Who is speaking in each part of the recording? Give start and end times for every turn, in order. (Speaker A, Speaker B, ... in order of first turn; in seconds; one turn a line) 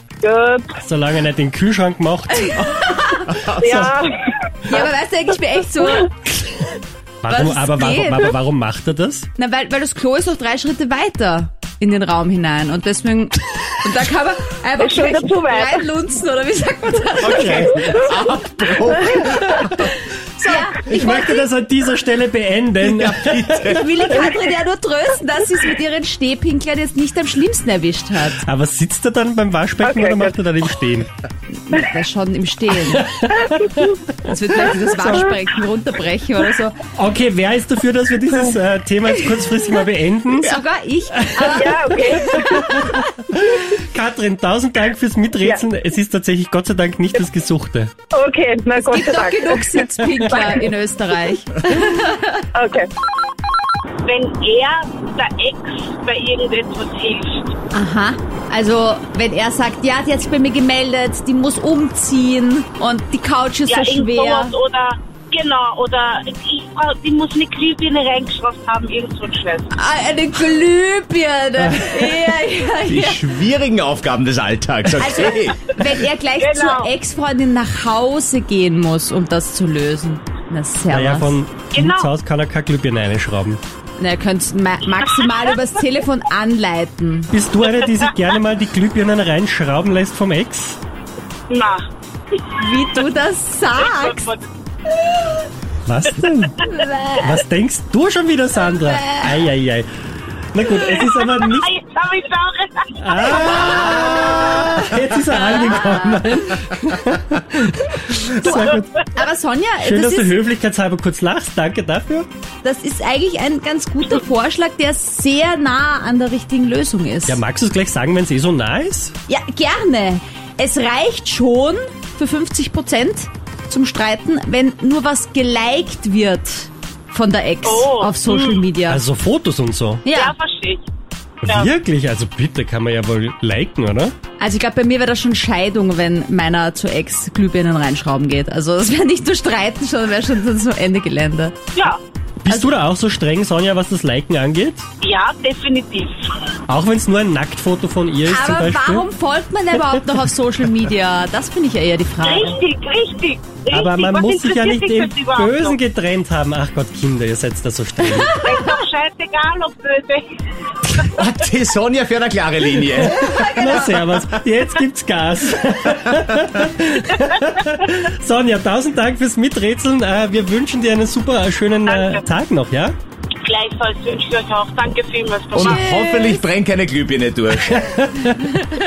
Speaker A: 0.2-0.7
Speaker B: 0.8-2.7
Speaker C: 2.4-3.4
Speaker D: 3.3-3.9
Speaker A: 3.6-4.5
Speaker C: 4.6-6.7
Speaker B: 7.2-9.3
Speaker C: 7.3-8.3
Speaker C: 9.4-18.1
Speaker A: 14.8-15.8
Speaker D: 17.2-19.8
Speaker B: 17.4-18.1
Speaker C: 20.4-21.4
Speaker B: 20.8-23.7
Speaker D: 22.8-24.1
Speaker C: 23.6-28.4
Speaker B: 28.3-31.1
Speaker A: 29.8-30.3
Speaker C: 31.6-33.1
Speaker B: 32.9-33.9
Speaker C: 34.2-36.8
Speaker B: 37.0-40.6
Speaker C: 40.4-42.9
Speaker B: 41.2-47.9
Speaker A: 41.4-42.9
Speaker A: 48.1-50.6
Speaker C: 48.8-52.5
Speaker A: 52.5-52.9
Speaker E: 54.0-57.5
Speaker C: 57.7-64.5
Speaker E: 63.7-69.7
Speaker C: 69.7-73.3
Speaker B: 71.8-72.3
Speaker D: 72.8-75.7
Speaker C: 75.0-81.4
Speaker E: 76.4-76.9
Speaker B: 80.9-83.6
Speaker E: 81.7-82.1
Speaker C: 84.0-87.3
Speaker B: 87.3-90.8
Speaker E: 91.5-91.8
Speaker C: 92.6-94.2
Speaker E: 93.7-94.5
Speaker B: 95.8-96.6
Speaker C: 96.7-97.4
Speaker B: 97.2-99.9
Speaker C: 98.8-99.4
Speaker B: 100.5-101.7
Speaker E: 100.9-103.8
Speaker B: 103.0-108.9
Speaker C: 103.9-104.7
Speaker C: 105.4-106.3
Speaker C: 108.4-110.4
Speaker B: 109.8-112.3
Speaker C: 112.6-117.4
Speaker B: 117.3-119.1
Speaker C: 119.3-129.0
Speaker E: 127.6-128.7
Speaker B: 128.9-130.0
Speaker C: 130.0-130.3
Speaker E: 130.1-130.8
Speaker E: 131.4-131.7
Speaker B: 131.4-134.1
Speaker C: 134.4-141.6
Speaker E: 141.7-142.0
Speaker B: 142.4-144.8
Speaker E: 145.0-146.4
Speaker B: 146.7-149.1
Speaker C: 148.2-152.6
Speaker E: 152.2-155.8
Speaker B: 153.7-158.4
Speaker E: 158.4-161.1
Speaker D: 161.1-164.0
Speaker B: 163.0-172.9
Speaker E: 171.8-172.2
Speaker E: 173.4-175.8
Speaker D: 175.5-177.9
Speaker C: 175.6-176.4
Speaker B: 177.7-178.5